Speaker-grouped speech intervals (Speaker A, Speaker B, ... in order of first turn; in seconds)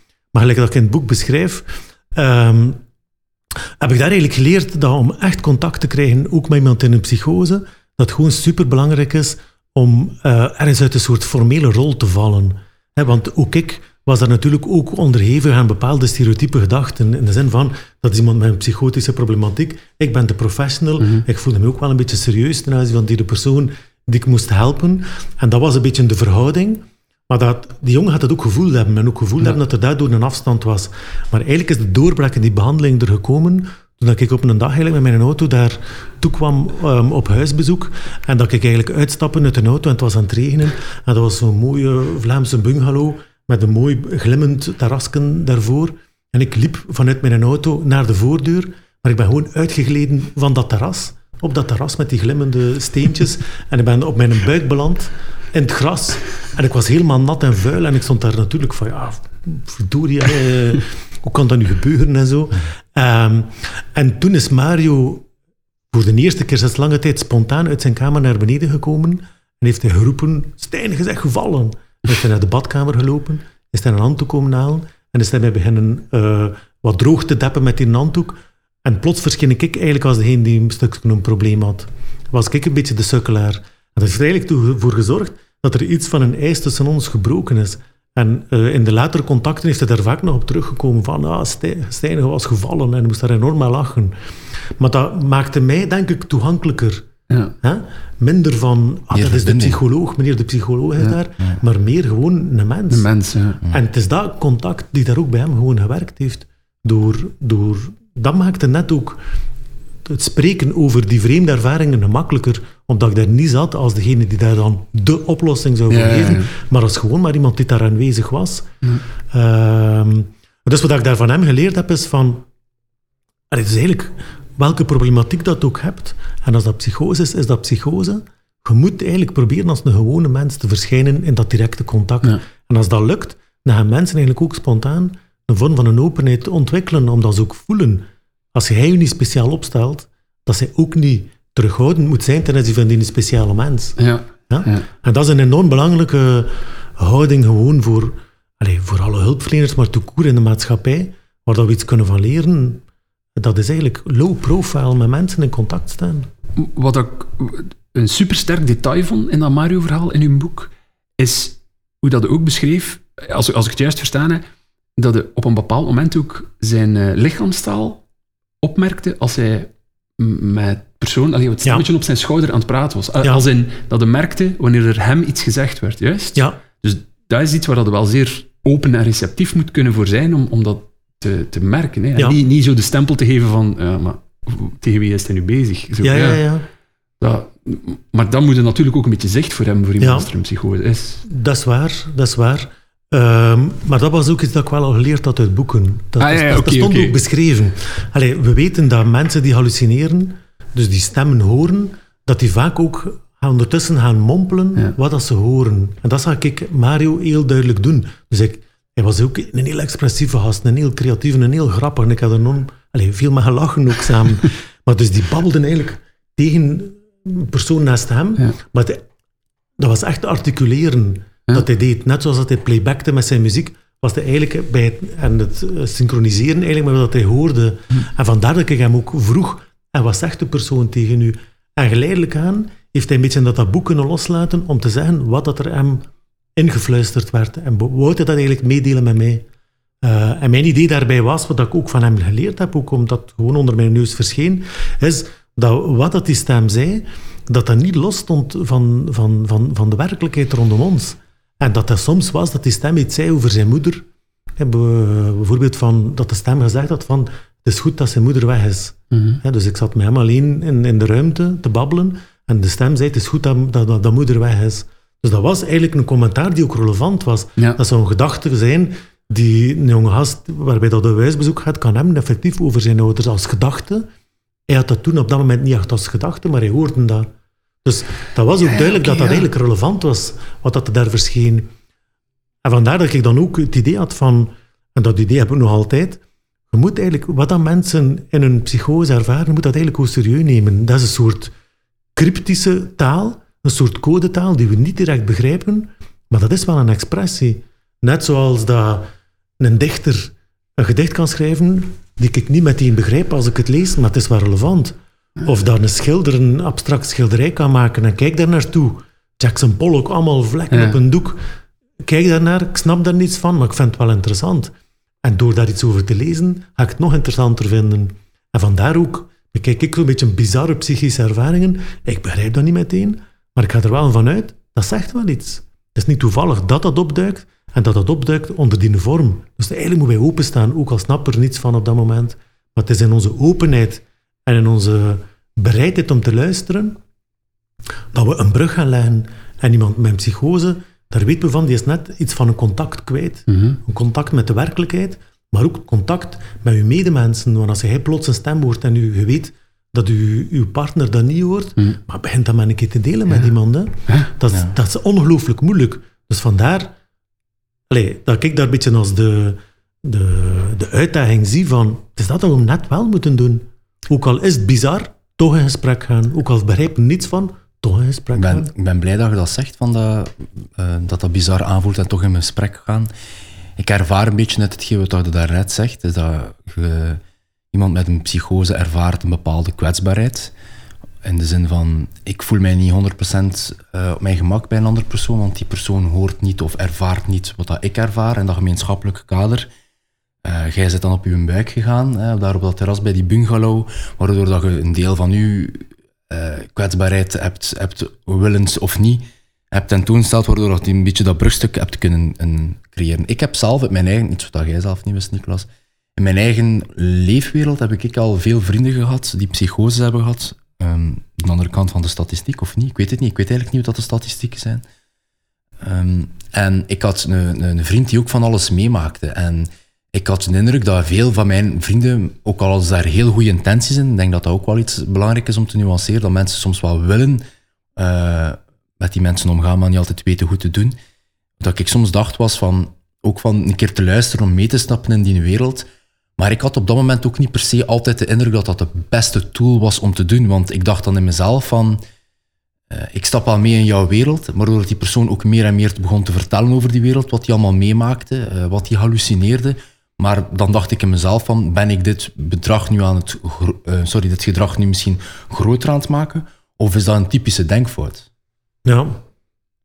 Speaker A: 0.3-2.8, 3.8-65.2, 65.9-94.2, 94.8-97.0, 97.6-103.0, 103.7-109.2, 110.0-118.7, 119.3-122.5, 123.5-144.0, 144.5-152.8, 153.3-156.3, 186.0-186.6, 190.0-190.3, 191.3-219.0, 219.8-239.4, 240.0-254.0, 254.6-274.1, 274.7-277.3, 277.8-281.7, 282.6-286.2, 286.7-291.5, 292.1-311.4, 312.0-337.0, 338.1-356.9, 357.9-368.7, 458.8-459.2
Speaker B: 21.0-21.2, 102.9-103.6, 115.9-116.5, 144.0-144.9, 156.6-164.4, 165.0-168.0, 168.6-186.4, 187.2-191.2, 196.2-197.2, 259.1-259.4, 278.7-279.5, 310.7-311.0, 343.5-343.8
Speaker C: 99.1-99.8, 368.3-373.1, 373.8-377.2, 377.7-380.5, 381.2-389.7, 390.4-414.8, 415.8-427.4, 427.9-430.9, 431.6-435.9, 436.4-442.0, 442.9-458.2